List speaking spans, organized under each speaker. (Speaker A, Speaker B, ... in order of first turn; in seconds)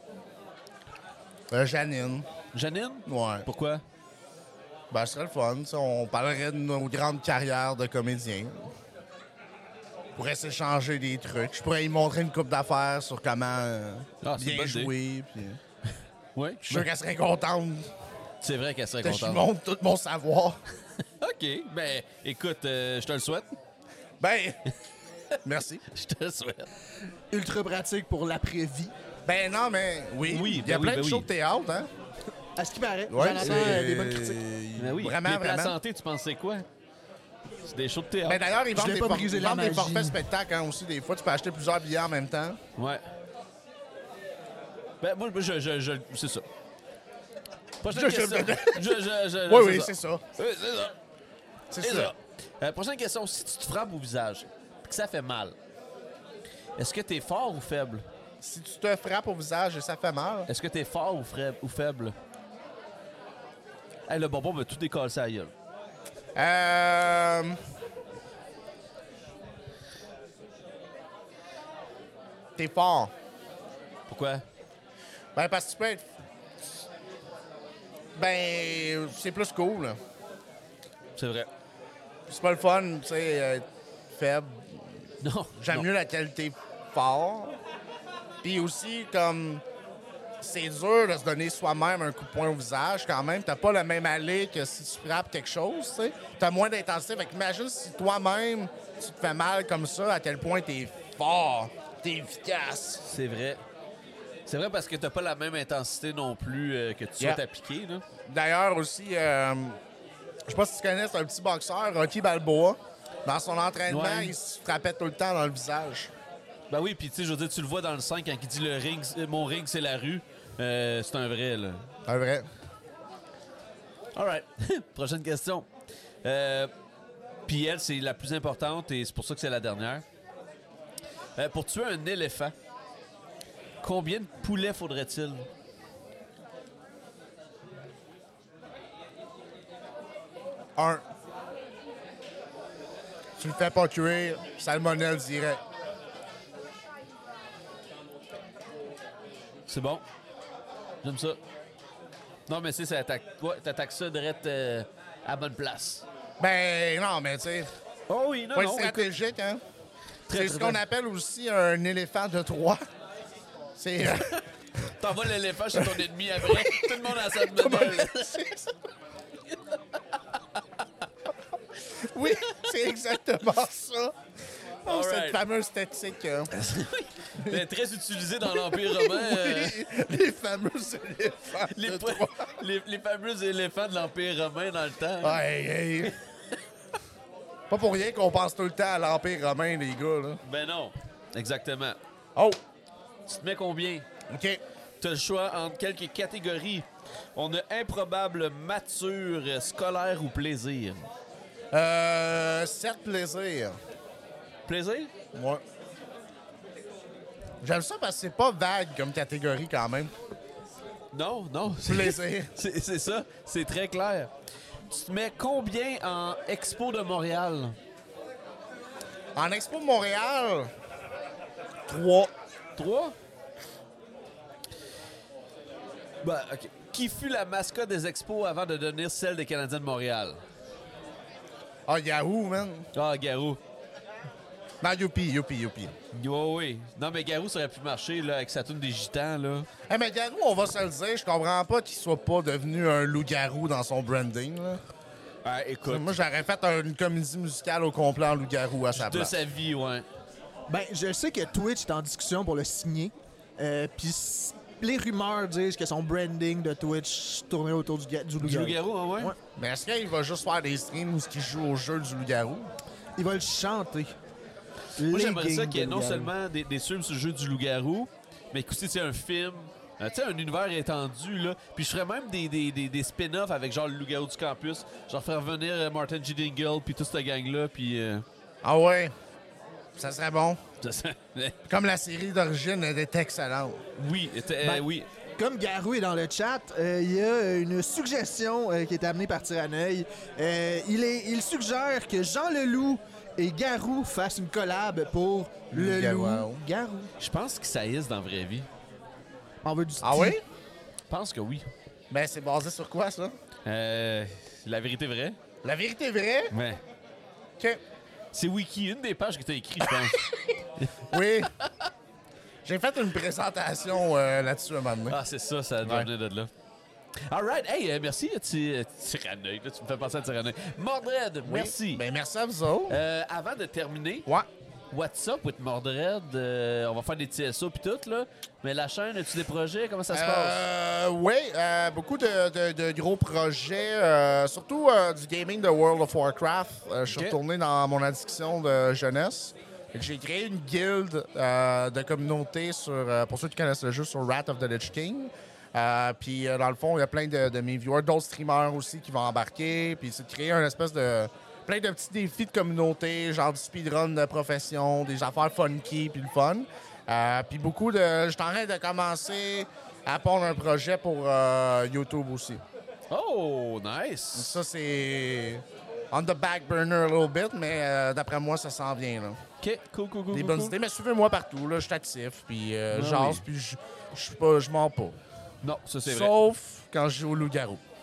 Speaker A: 1.5-2.3, 3.1-3.5, 4.9-8.7, 10.2-15.6, 16.6-17.9, 19.0-20.6, 24.2-24.6, 25.4-25.8, 29.2-31.9, 33.1-35.8, 38.2-42.6, 47.9-50.2, 51.7-52.1, 58.4-60.5, 66.3-67.6, 72.6-73.1, 75.3-76.0, 78.1-80.0, 82.3-84.9, 85.6-87.6, 88.4-89.6, 90.4-103.0, 108.3-109.8, 110.5-116.1, 122.0-122.5, 140.8-141.0, 143.4-145.6, 156.4-157.7, 158.5-159.6, 160.3-162.8, 163.8-164.4, 165.7-168.7, 171.9-174.1, 174.8-176.5, 177.4-177.6, 178.5-182.5, 185.2-186.1, 187.7-190.4, 194.3-194.6, 201.7-203.7, 205.3-205.6, 207.6-210.1, 211.8-212.5, 219.3-220.7, 221.9-222.3, 231.9-232.9, 234.8-235.9, 239.9-244.8, 245.8-249.3, 259.6-262.7, 278.6-279.1, 279.9-280.6, 281.7-283.8, 295.7-296.6, 300.0-300.4, 302.1-303.3, 305.6-306.5, 311.1-311.5, 312.6-315.2, 315.8-316.1, 321.4-323.0, 330.1-362.6, 364.3-369.4, 370.3-375.2, 376.0-377.8
Speaker B: 2.5-3.8, 14.2-14.9, 16.3-16.9, 18.4-19.4, 21.2-23.5, 25.9-26.7, 30.3-31.3, 33.4-33.9, 34.8-36.6, 37.7-38.4, 42.8-43.0, 45.0-46.5, 47.8-50.9, 51.8-55.5, 56.8-58.0, 60.5-62.1, 64.1-65.5, 74.1-74.4, 81.2-81.5, 85.2-85.9, 103.0-103.6, 104.5-108.0, 113.9-114.3, 116.7-121.8, 124.2-125.7, 126.2-126.7, 127.5-130.0, 131.3-132.5, 133.8-135.5, 149.7-150.0, 151.0-151.4, 152.5-156.0, 158.1-159.1, 160.3-160.8, 165.0-168.4, 174.9-175.4, 176.5-179.8, 181.7-185.4, 186.0-186.6, 190.4-192.0, 193.3-194.1, 195.0-201.1, 204.7-205.1, 211.1-214.3, 214.9-217.8, 222.8-223.1, 226.2-230.4, 232.9-233.6, 236.1-239.7, 245.4-246.1, 248.9-250.1, 258.4-259.3, 265.1-278.2, 280.8-281.6, 283.9-285.1, 297.2-298.7, 301.1-301.7, 303.6-305.4, 306.5-306.8, 308.3-311.7, 315.1-316.5, 317.3-322.0, 322.9-324.3, 324.9-330.6, 337.1-337.4, 363.1-364.6, 369.6-370.8, 372.9-373.4, 375.6-376.3
Speaker C: 27.3-28.9, 32.6-34.4, 38.7-40.2, 250.7-259.4, 263.2-264.1, 265.0-266.3, 285.4-297.1, 299.6-300.4